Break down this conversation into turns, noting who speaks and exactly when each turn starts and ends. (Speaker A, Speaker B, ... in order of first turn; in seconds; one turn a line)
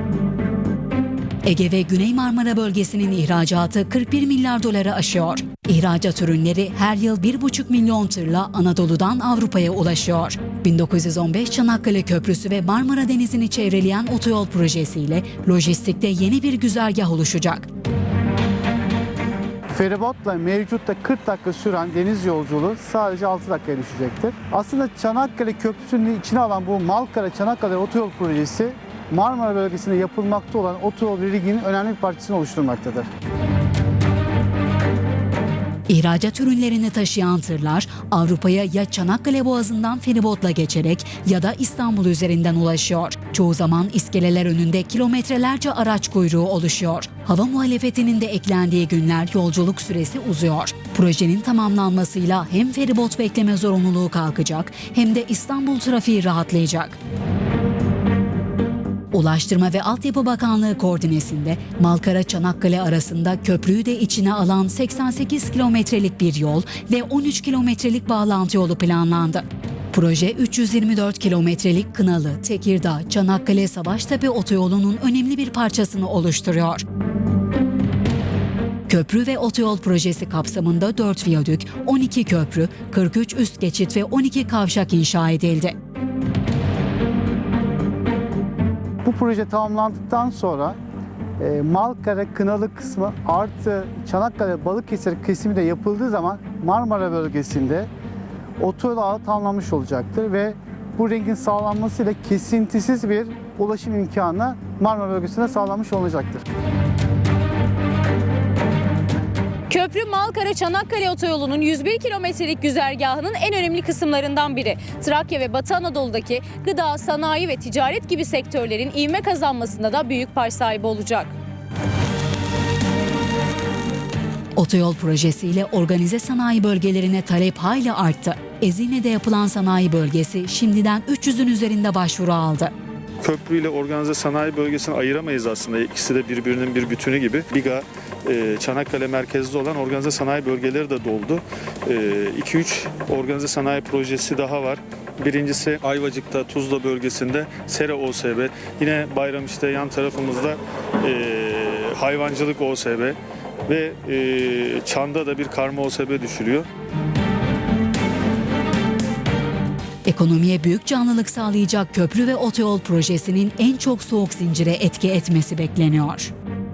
Speaker A: 1.4-17.7
Speaker B: 19.7-33.1
Speaker A: 35.9-57.0
Speaker A: 59.1-76.8
Speaker A: 78.9-85.8
Speaker B: 89.0-90.8
Speaker B: 91.4-97.9
Speaker B: 98.6-106.4
Speaker C: 109.7-121.3
Speaker A: 124.6-132.7
Speaker D: 133.2-156.7
Speaker A: 160.1-166.3